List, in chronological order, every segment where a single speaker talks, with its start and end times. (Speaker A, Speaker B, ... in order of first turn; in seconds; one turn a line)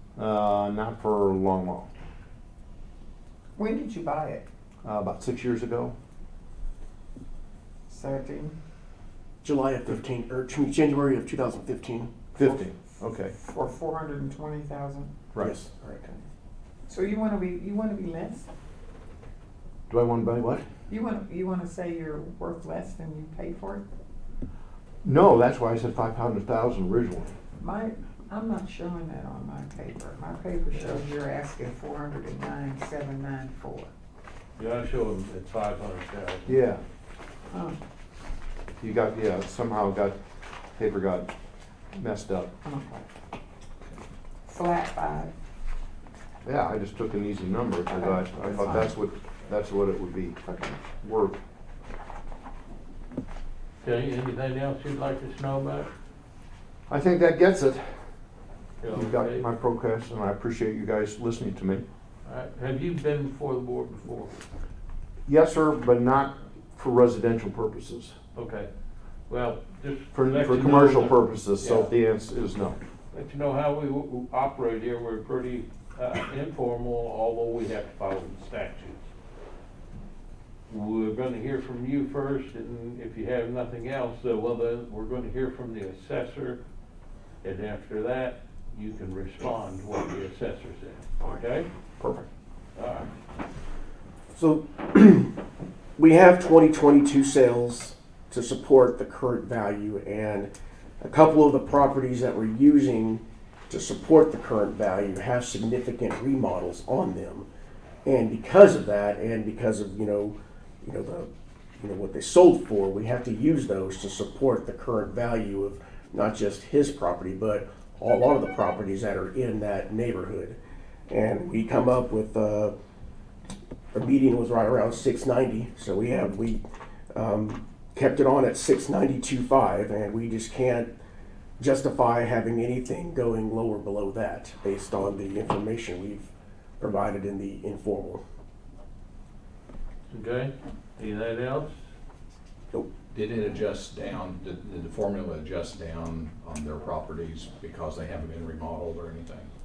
Speaker A: 0.2-1.9
Speaker B: 3.6-4.5
Speaker A: 4.8-6.0
Speaker B: 7.9-8.6
Speaker C: 9.4-12.1
Speaker A: 12.3-13.3
Speaker B: 12.4-15.1
Speaker C: 15.4-16.1
Speaker B: 16.9-18.5
Speaker A: 19.9-20.6
Speaker B: 20.9-23.9
Speaker A: 25.0-27.4
Speaker B: 27.6-33.9
Speaker D: 34.6-36.6
Speaker A: 36.5-36.8
Speaker B: 37.5-37.8
Speaker A: 38.8-40.2
Speaker A: 40.8-41.3
Speaker A: 41.9-42.5
Speaker B: 42.6-43.1
Speaker B: 44.5-45.3
Speaker A: 46.4-50.4
Speaker B: 47.9-48.9
Speaker B: 50.4-50.8
Speaker A: 51.0-51.4
Speaker D: 53.8-55.9
Speaker A: 56.9-58.0
Speaker D: 58.8-59.5
Speaker A: 58.9-61.9
Speaker D: 62.2-64.4
Speaker A: 65.3-68.2
Speaker D: 68.3-68.7
Speaker D: 69.3-72.0
Speaker A: 70.1-72.8
Speaker D: 73.1-79.0
Speaker D: 80.7-86.6
Speaker D: 87.4-91.7
Speaker A: 92.0-92.2
Speaker D: 92.8-93.1
Speaker C: 94.4-95.3
Speaker C: 96.0-107.5
Speaker C: 108.0-120.6
Speaker C: 121.1-122.8
Speaker C: 123.9-126.6
Speaker C: 127.1-130.9
Speaker C: 131.6-138.2
Speaker D: 140.1-141.8
Speaker E: 143.1-149.5